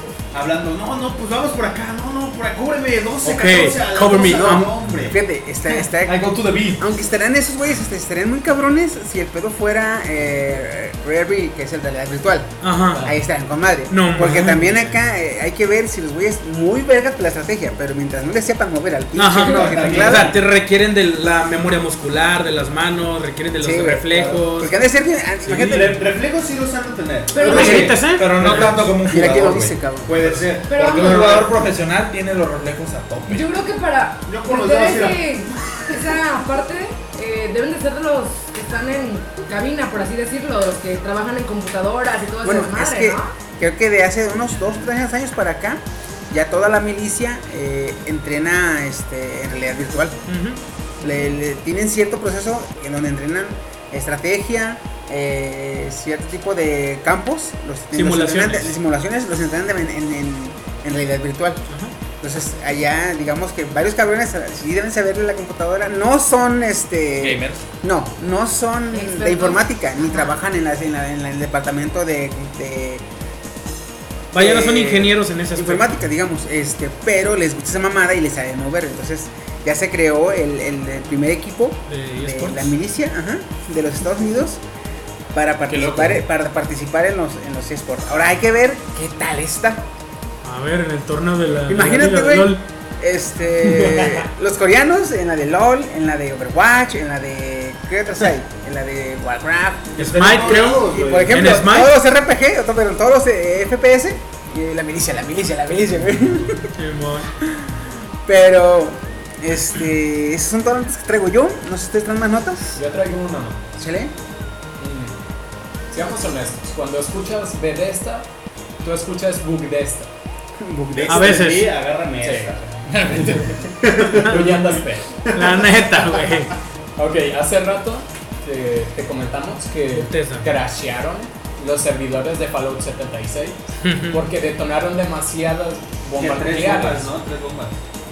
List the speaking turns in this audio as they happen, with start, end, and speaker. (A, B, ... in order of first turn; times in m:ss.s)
0:00.3-0:05.2 A
0:03.2-0:04.7 B
0:04.3-0:20.4 C
0:05.8-0:06.8 D
0:12.6-0:13.1 B
0:13.9-0:14.8 B
0:19.2-0:24.8 B
0:19.3-0:20.4 A
0:23.6-0:26.0 C
0:25.4-0:28.9 A
0:27.3-0:28.0 E
0:27.5-0:33.6 D
0:27.5-0:28.8 B
0:27.5-0:27.8 C
0:29.0-0:30.1 C
0:30.0-0:31.5 A
0:30.7-0:31.5 E
0:33.3-0:43.3 E
0:34.3-0:35.3 A
0:42.4-0:50.2 C
0:50.3-0:50.6 B
0:51.0-1:01.6 C
0:57.9-0:58.8 B
1:02.2-1:13.0 C
1:07.2-1:07.6 D
1:08.9-1:10.4 E
1:14.3-1:16.0 B
1:14.3-1:24.6 C
1:21.9-1:22.7 B
1:25.3-1:29.8 C
1:25.7-1:26.2 F
1:30.4-1:32.6 B
1:31.7-1:46.7 C
1:33.6-1:34.2 F
1:40.0-1:41.5 A
1:40.0-1:41.9 B
1:46.8-1:47.3 B
1:48.2-1:52.8 C
1:52.8-1:53.6 F
1:53.8-1:54.1 C
1:54.8-1:55.2 F
1:55.9-1:58.3 F
1:58.8-2:00.1 F
2:00.6-2:01.4 C
2:00.9-2:02.6 A
2:01.1-2:01.7 B
2:02.2-2:03.6 F
2:03.1-2:03.4 D
2:03.8-2:04.5 A
2:04.1-2:04.6 B
2:04.1-2:05.1 F
2:05.2-2:05.6 A
2:05.3-2:06.5 B
2:07.0-2:17.1 F
2:09.9-2:10.5 B
2:13.8-2:14.3 B
2:16.2-2:17.8 A